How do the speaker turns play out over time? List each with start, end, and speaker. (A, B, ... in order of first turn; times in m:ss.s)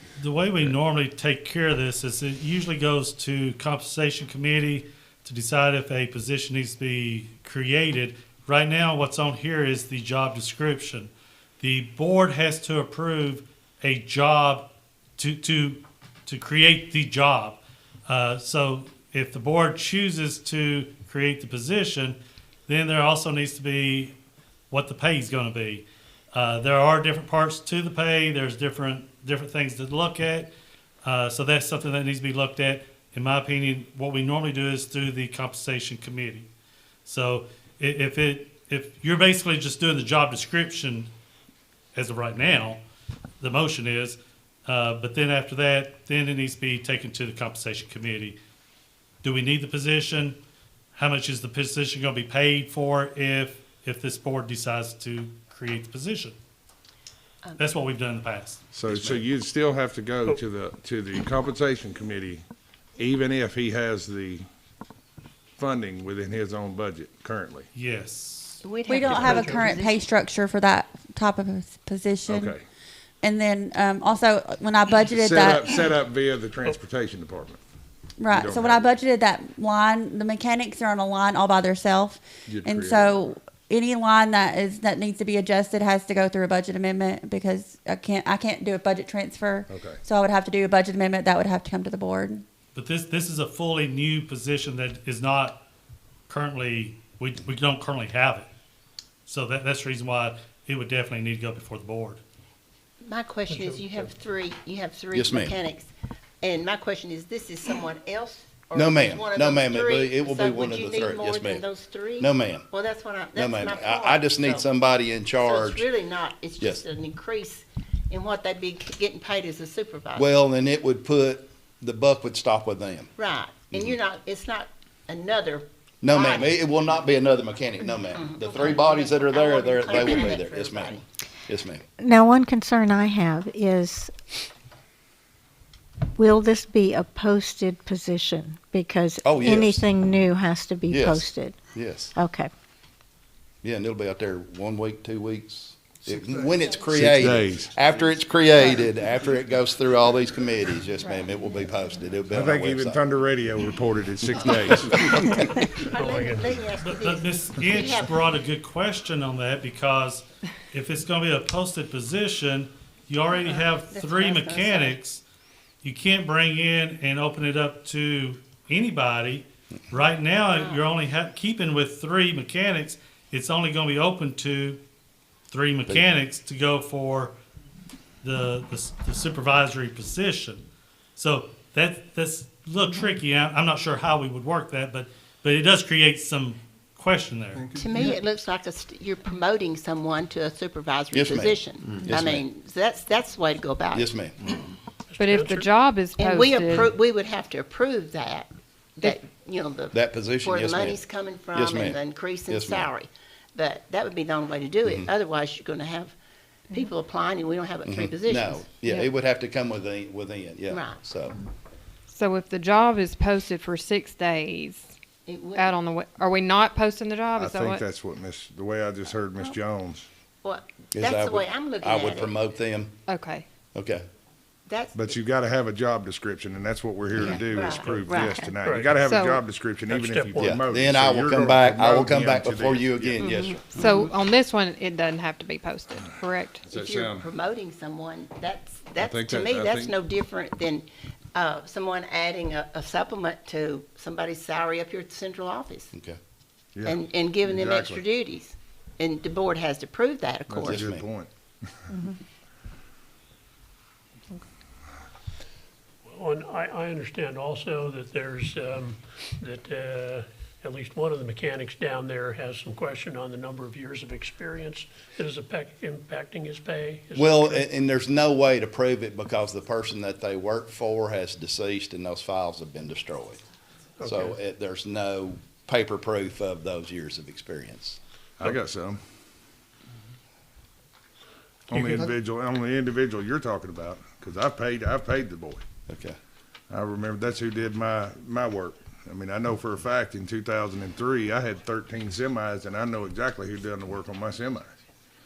0:00.2-0:14.6 A
0:15.2-0:22.2 A
0:22.7-0:24.1 A
0:24.7-0:30.5 A
0:31.0-0:36.5 A
0:37.0-0:41.1 A
0:41.9-0:42.8 A
0:43.4-0:48.4 A
0:49.2-0:50.4 A
0:50.9-0:56.3 A
0:57.6-0:59.2 A
0:58.7-1:02.4 B
1:03.0-1:04.4 B
1:05.6-1:07.7 B
1:07.7-1:08.6 A
1:08.6-1:10.1 C
1:08.8-1:12.6 D
1:09.0-1:09.7 E
1:12.3-1:12.6 B
1:13.2-1:15.7 D
1:15.0-1:17.6 B
1:18.2-1:32.4 D
1:18.3-1:18.9 B
1:22.5-1:23.3 B
1:29.7-1:30.0 B
1:32.7-1:35.6 A
1:36.3-1:38.5 A
1:39.3-1:42.2 A
1:43.0-1:45.9 C
1:43.5-1:44.1 E
1:45.1-1:45.6 F
1:46.4-1:54.7 C
1:48.7-1:51.6 F
1:52.2-1:52.7 F
1:53.3-1:55.9 F
1:55.4-2:00.2 C
2:00.1-2:03.1 F
2:03.2-2:06.6 C
2:06.0-2:11.8 F
2:08.1-2:11.0 C
2:12.0-2:14.1 G
2:16.2-2:21.6 G
2:19.2-2:19.8 F
2:20.9-2:22.2 F
2:22.1-2:22.5 G
2:23.6-2:33.0 F
2:26.1-2:27.7 B
2:32.3-2:35.4 B
2:35.2-2:36.6 E
2:35.8-2:38.2 C
2:36.8-2:45.2 A
2:43.3-2:45.0 C
2:45.8-2:54.8 A
2:50.5-2:50.8 C
2:55.5-2:57.3 A
2:55.9-2:56.2 F
2:58.2-3:00.6 A
3:01.2-3:07.6 A
3:07.7-3:14.1 C
3:11.1-3:12.4 F
3:13.9-3:14.3 F
3:15.1-3:15.7 E
3:15.2-3:16.9 H
3:16.2-3:26.1 C
3:19.9-3:21.0 F
3:21.5-3:22.9 F
3:26.7-3:28.8 C
3:27.8-3:31.4 F
3:30.7-3:31.0 C
3:32.1-3:34.9 H
3:35.2-3:35.8 C
3:35.5-3:37.8 H
3:37.4-3:40.0 B
3:40.4-3:42.4 C
3:40.9-3:42.9 F
3:43.1-3:43.4 H
3:43.7-3:44.0 F
3:44.7-3:45.2 C
3:44.9-3:53.5 B
3:47.2-3:48.4 C
3:47.8-3:49.0 E
3:49.0-3:49.4 H
3:49.8-3:50.6 E
3:50.4-3:53.8 F
3:53.7-3:56.6 H
3:56.6-3:57.2 B
3:56.7-4:05.9 C
3:59.0-3:59.9 B
4:06.8-4:08.0 B
4:06.8-4:10.9 C
4:10.5-4:11.3 B
4:10.6-4:11.0 F
4:16.1-4:27.6 E
4:27.2-4:33.4 F
4:34.0-4:34.4 E
4:34.0-4:38.0 F
4:38.4-4:39.0 B
4:41.7-4:45.6 B
4:41.7-4:42.1 E
4:45.9-4:46.2 F
4:46.7-4:54.7 B